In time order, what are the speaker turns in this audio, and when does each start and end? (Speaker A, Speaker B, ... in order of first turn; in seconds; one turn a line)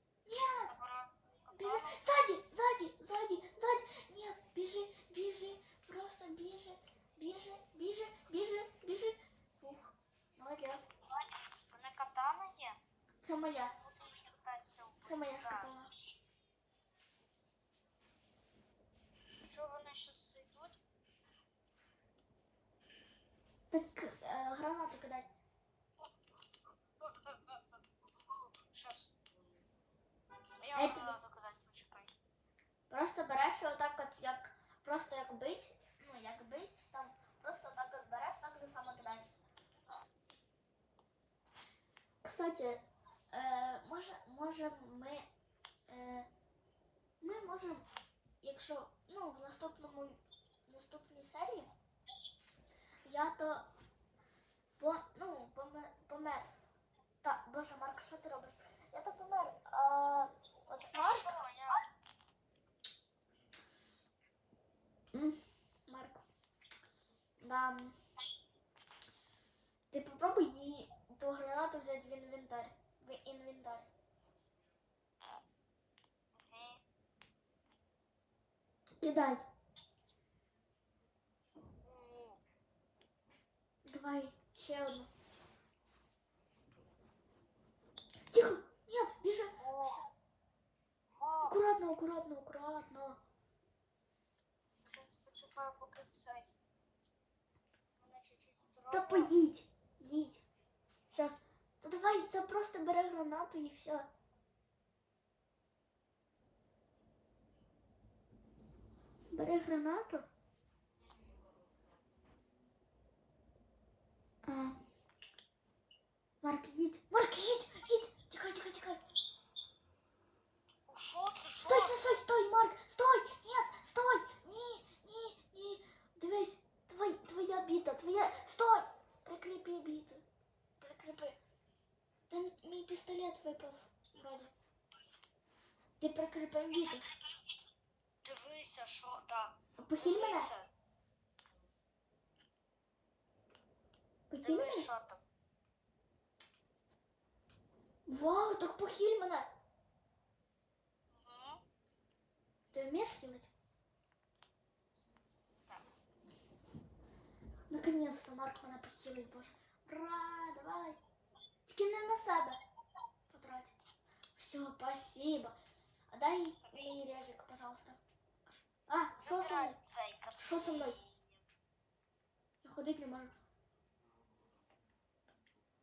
Speaker A: 0.2-0.7
Speaker B: 0.6-2.1
Speaker A: 1.5-10.9
Speaker B: 11.0-12.8
Speaker A: 13.2-13.7
Speaker B: 13.4-15.7
Speaker A: 15.1-15.9
Speaker B: 19.4-20.8
Speaker A: 23.7-25.3
Speaker B: 27.0-27.8
Speaker B: 28.3-29.1
Speaker B: 30.6-32.1
Speaker A: 30.7-31.1
Speaker A: 32.9-39.3
Speaker A: 42.2-45.3
Speaker A: 45.9-46.3
Speaker A: 47.2-47.9
Speaker A: 48.4-51.7
Speaker A: 53.0-53.7
Speaker A: 54.8-56.5
Speaker A: 57.2-61.3
Speaker B: 60.9-61.9
Speaker A: 65.1-66.2
Speaker A: 67.4-68.0
Speaker A: 69.9-73.9
Speaker B: 76.3-76.8
Speaker A: 79.0-79.4
Speaker B: 81.8-82.4
Speaker A: 83.8-85.1
Speaker A: 88.3-90.0
Speaker B: 89.6-90.1
Speaker B: 91.1-91.6
Speaker A: 91.4-93.2
Speaker B: 94.8-96.5
Speaker B: 98.0-99.3
Speaker A: 98.9-100.4
Speaker A: 101.1-104.1
Speaker A: 109.3-110.3
Speaker A: 114.4-114.8
Speaker A: 116.4-119.0
Speaker B: 120.9-122.2
Speaker A: 121.6-130.2
Speaker A: 130.8-131.4
Speaker A: 132.3-134.5
Speaker A: 136.0-137.0
Speaker B: 138.2-140.7
Speaker A: 139.8-140.5
Speaker A: 144.3-144.9
Speaker B: 144.4-145.2
Speaker A: 148.1-149.5
Speaker B: 151.1-151.6
Speaker A: 152.7-153.5
Speaker A: 157.7-161.0
Speaker A: 161.7-162.6
Speaker A: 163.3-163.7
Speaker A: 164.3-165.6
Speaker A: 166.1-169.8
Speaker B: 166.6-167.0
Speaker B: 169.1-171.4
Speaker A: 170.4-171.0
Speaker A: 172.6-173.3